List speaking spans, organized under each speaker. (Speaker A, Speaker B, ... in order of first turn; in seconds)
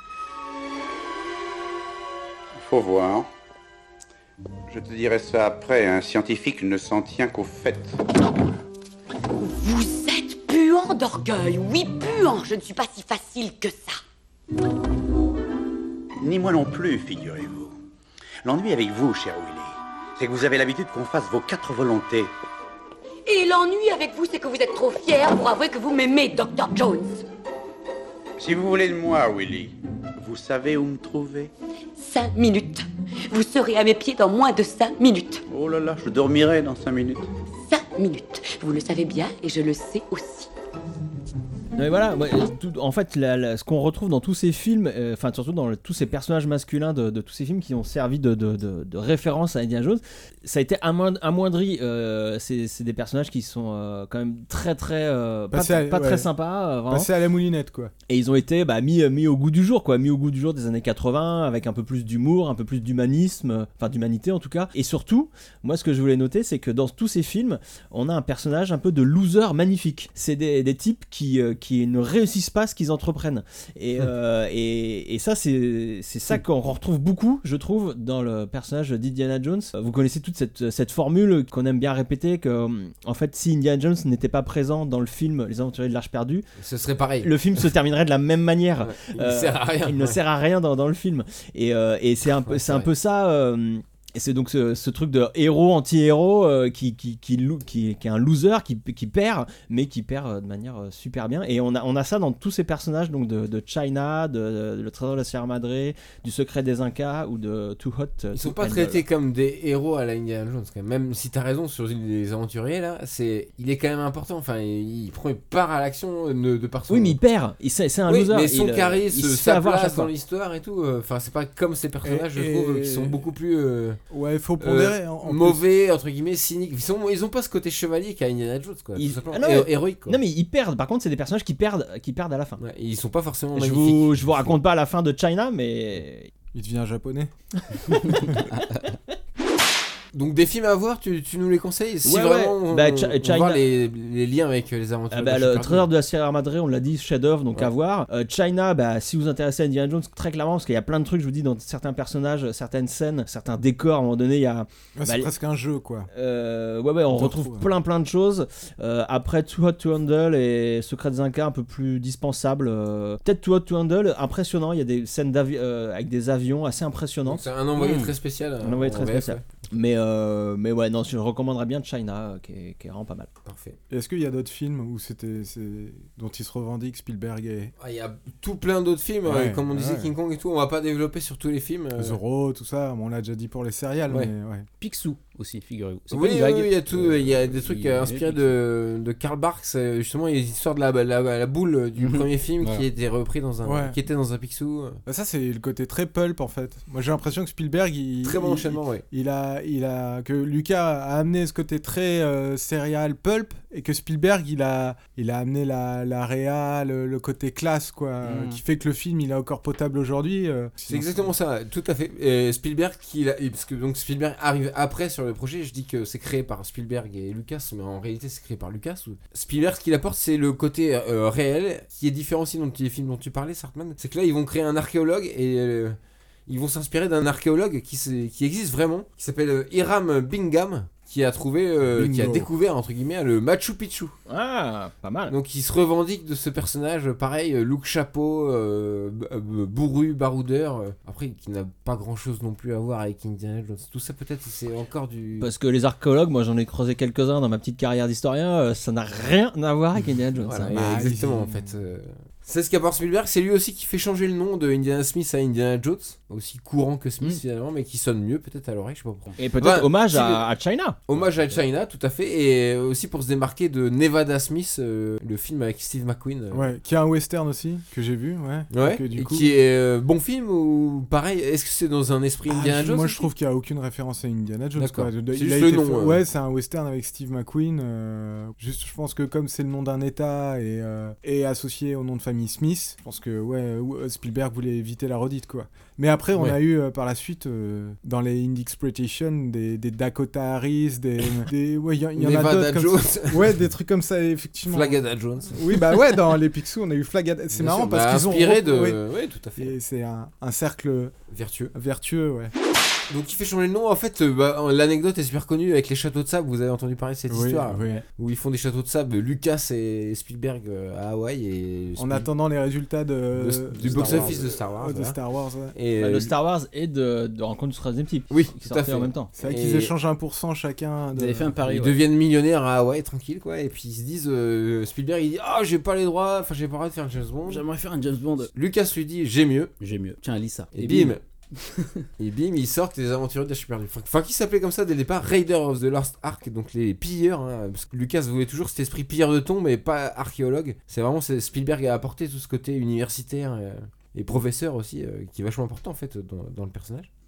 Speaker A: 2.5-3.3, 4.7-8.0, 16.2-17.7, 18.4-22.3, 28.4-31.5, 35.5-37.3
Speaker B: 9.4-14.0, 23.3-27.2, 32.0-35.4, 37.7-40.5
Speaker C: 41.8-57.1, 58.1-86.5, 87.2-109.0, 116.9-120.1, 128.9-132.6, 133.5-136.3, 142.0-143.6, 145.1-155.3, 156.1-167.4, 168.6-173.3, 234.3-235.3, 245.4-251.1, 259.4-261.0, 316.0-319.3
Speaker D: 55.5-56.3, 56.9-57.9, 122.0-123.2, 124.1-125.6, 136.5-137.3, 155.0-156.1, 157.1-157.7, 173.9-177.7, 179.2-180.1, 181.9-184.7, 193.6-194.0, 195.1-211.3, 231.9-232.5, 250.7-251.6, 266.5-269.5, 272.5-299.0, 299.6-301.1, 301.7-302.5, 307.3-308.0, 312.0-315.7, 319.4-321.6
Speaker E: 86.6-87.3, 88.8-90.2, 92.2-92.9, 108.3-117.2, 118.1-124.0, 124.6-130.2, 132.6-134.6, 140.1-145.9, 167.2-169.4, 173.4-173.8, 177.8-182.2, 186.1-195.0, 198.2-199.0, 210.9-234.1, 235.3-245.5, 250.4-260.4, 261.1-266.7, 268.7-273.3, 274.7-276.2, 286.3-286.6, 292.1-293.6, 294.7-296.0, 297.5-299.8, 301.3-301.7, 303.1-312.3, 313.3-315.2, 315.7-316.3, 318.3-319.9, 321.6-327.6, 328.5-329.7, 330.7-331.2, 332.2-347.1
Speaker F: 167.8-168.1, 184.8-188.6, 192.0-192.8, 208.2-208.6, 313.8-314.3, 321.1-322.0, 327.5-328.5, 329.8-332.1